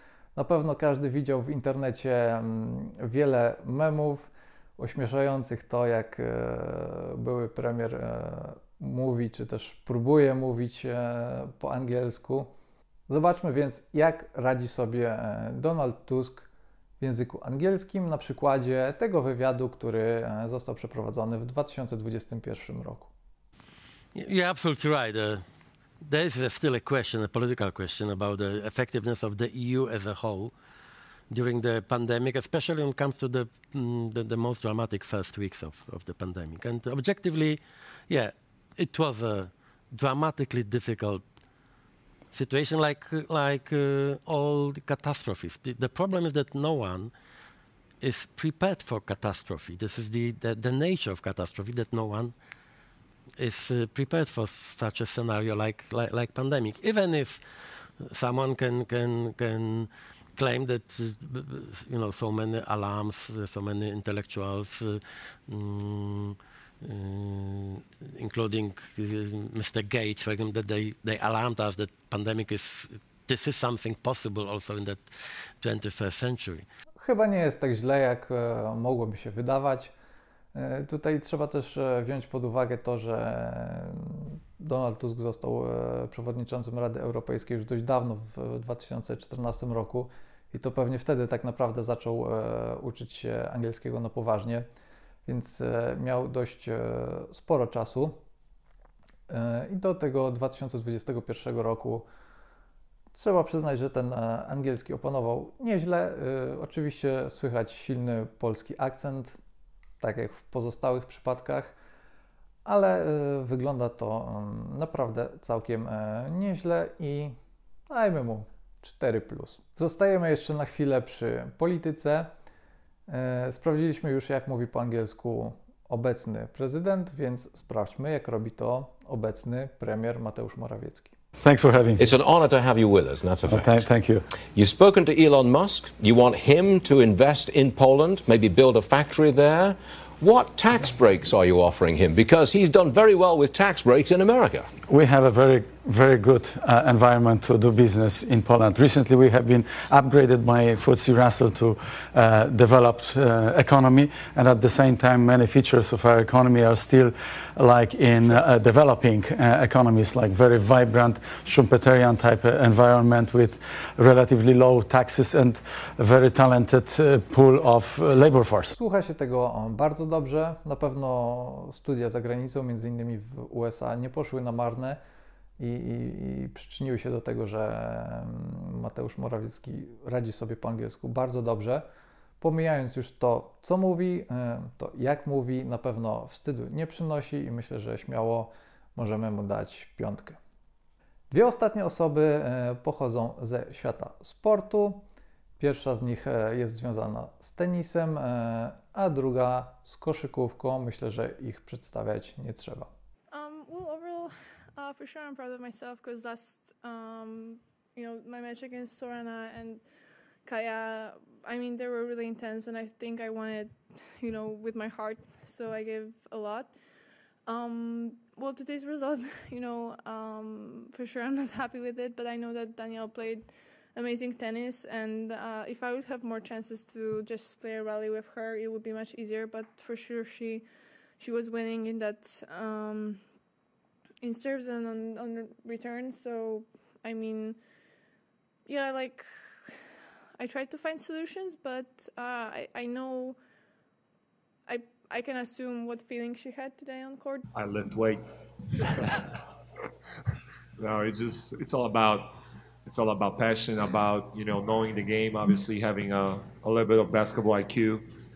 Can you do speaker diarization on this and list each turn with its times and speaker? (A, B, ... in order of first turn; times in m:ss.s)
0:00.3-0:12.5 A
0:13.1-0:16.5 A
0:17.0-0:23.1 A
0:24.1-0:25.4 B
0:26.0-0:30.5 B
0:31.3-0:41.2 B
0:42.3-0:47.1 B
0:48.0-0:52.3 B
0:53.4-0:57.4 B
0:58.0-1:15.0 B
1:15.6-1:16.6 B
1:17.0-1:19.9 A
1:20.5-1:34.6 A
1:35.3-1:38.2 A
1:39.3-1:42.0 A
1:43.1-1:49.4 A
1:50.0-1:51.7 A
1:52.6-1:57.3 A
1:57.9-2:02.3 A
2:03.1-2:11.1 A
2:11.4-2:12.1 C
2:12.0-2:13.9 D
2:13.4-2:14.2 C
2:14.5-2:24.6 D
2:24.9-2:48.7 C
2:48.7-2:55.0 A
2:55.6-3:01.8 A
3:02.4-3:10.4 A
3:11.3-3:15.0 A
3:15.6-3:22.9 A
3:23.3-3:29.8 E
3:30.4-3:36.8 E
3:37.4-3:53.2 E
3:54.2-3:57.6 E
3:58.6-4:03.4 E
4:04.7-4:07.4 E
4:07.5-4:09.2 F
4:10.8-4:18.1 F